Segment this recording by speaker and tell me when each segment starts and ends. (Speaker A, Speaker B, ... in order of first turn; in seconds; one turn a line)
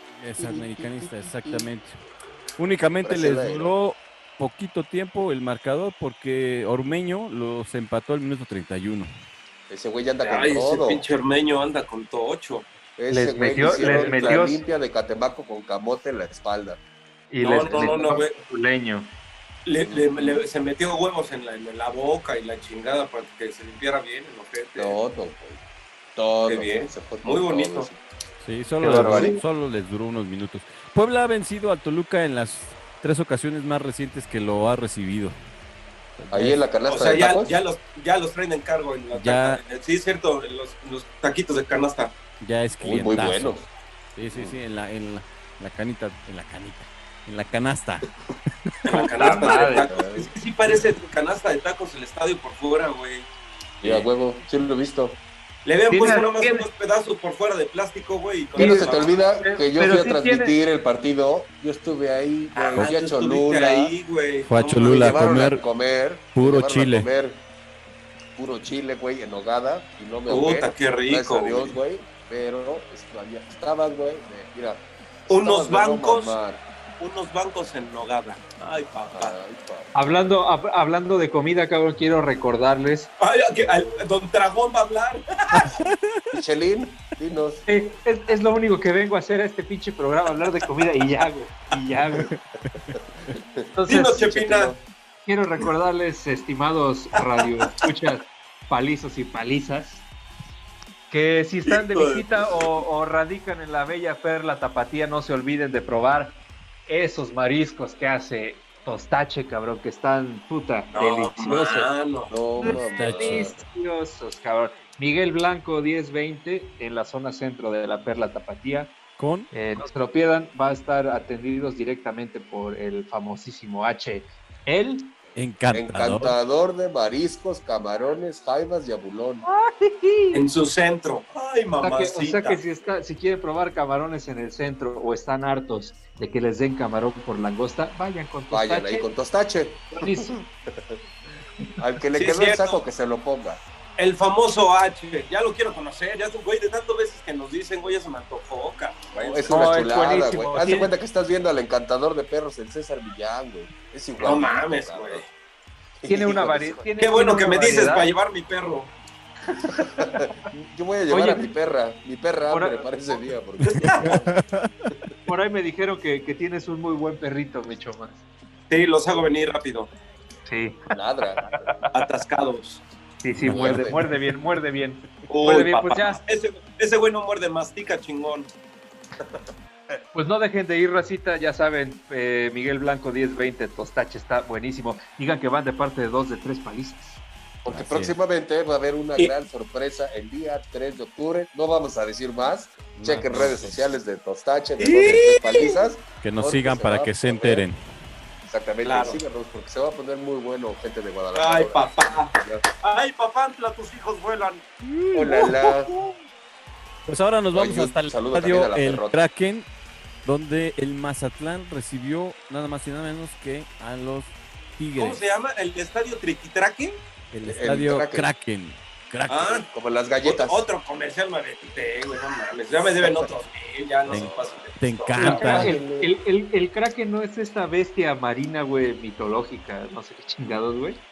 Speaker A: 0.2-2.0
Speaker B: 0.4-1.7
Speaker A: 2.6-9.1
Speaker B: 3.0-3.7
Speaker B: 9.7-11.1
Speaker C: 10.2-12.7
Speaker B: 13.0-16.8
Speaker D: 13.1-14.6
Speaker C: 13.6-14.4
Speaker D: 17.3-19.1
Speaker C: 17.4-18.4
Speaker C: 19.7-25.0
Speaker B: 24.8-25.6
Speaker B: 26.2-28.0
Speaker C: 26.5-27.9
Speaker A: 28.4-35.4
Speaker B: 28.8-29.4
Speaker D: 28.8-29.4
Speaker A: 36.2-36.6
Speaker B: 36.3-37.6
Speaker C: 36.9-42.2
Speaker A: 39.1-39.6
Speaker A: 42.4-43.6
Speaker B: 42.8-43.7
Speaker A: 44.2-48.1
Speaker B: 44.3-44.6
Speaker C: 48.9-53.3
Speaker D: 48.9-49.9
Speaker B: 49.8-50.3
Speaker B: 53.8-55.2
Speaker C: 55.6-59.2
Speaker D: 55.9-56.7
Speaker D: 58.6-58.9
Speaker B: 58.6-64.0
Speaker D: 59.4-60.6
Speaker C: 62.5-65.2
Speaker A: 64.5-65.6
Speaker B: 64.8-67.4
Speaker A: 66.4-67.1
Speaker B: 68.4-76.6
Speaker C: 70.3-71.8
Speaker C: 75.3-76.4
Speaker C: 77.0-79.4
Speaker B: 79.1-79.9
Speaker D: 80.0-83.1
Speaker C: 83.2-85.8
Speaker B: 83.6-83.9
Speaker A: 85.5-86.2
Speaker B: 86.3-87.7
Speaker D: 87.7-92.3
Speaker B: 92.9-94.8
Speaker D: 93.8-94.3
Speaker C: 93.9-94.7
Speaker D: 95.3-100.0
Speaker D: 101.1-111.9
Speaker C: 101.7-102.7
Speaker C: 110.9-112.3
Speaker B: 112.3-113.5
Speaker D: 112.6-119.0
Speaker A: 112.9-113.5
Speaker A: 119.2-119.5
Speaker D: 119.5-125.1
Speaker A: 125.4-126.3
Speaker B: 125.7-129.5
Speaker D: 129.4-130.4
Speaker C: 130.3-132.6
Speaker D: 131.8-139.1
Speaker B: 138.5-141.0
Speaker D: 139.9-140.4
Speaker B: 141.8-143.6
Speaker C: 142.2-142.8
Speaker C: 144.0-149.5
Speaker B: 149.2-155.2
Speaker D: 149.5-150.9
Speaker C: 154.2-155.3
Speaker B: 156.0-156.8
Speaker D: 156.1-158.1
Speaker C: 157.0-158.9
Speaker B: 159.7-164.3
Speaker D: 161.1-161.5
Speaker D: 162.5-162.9
Speaker C: 163.7-164.1
Speaker A: 163.7-164.9
Speaker D: 165.3-168.2
Speaker C: 168.7-169.9
Speaker D: 170.5-170.8
Speaker B: 170.9-171.7
Speaker D: 171.5-171.9
Speaker C: 171.9-172.8
Speaker D: 173.2-176.2
Speaker B: 173.4-174.0
Speaker A: 173.5-173.9
Speaker C: 175.3-178.5
Speaker D: 180.1-187.2
Speaker B: 187.6-197.7
Speaker A: 187.7-188.1
Speaker A: 193.0-193.8
Speaker C: 194.8-195.8
Speaker A: 196.2-197.8
Speaker B: 198.4-202.7
Speaker C: 198.8-199.2
Speaker C: 201.3-204.7
Speaker A: 204.8-206.1
Speaker B: 205.1-205.9
Speaker A: 207.1-209.7
Speaker B: 207.5-209.2
Speaker A: 210.2-215.2
Speaker C: 215.0-217.0
Speaker A: 217.3-219.6
Speaker B: 217.4-218.3
Speaker C: 219.3-219.7
Speaker B: 219.7-220.7
Speaker C: 220.2-225.6
Speaker A: 224.1-225.8
Speaker B: 224.1-224.7
Speaker D: 225.2-231.0
Speaker B: 225.2-226.2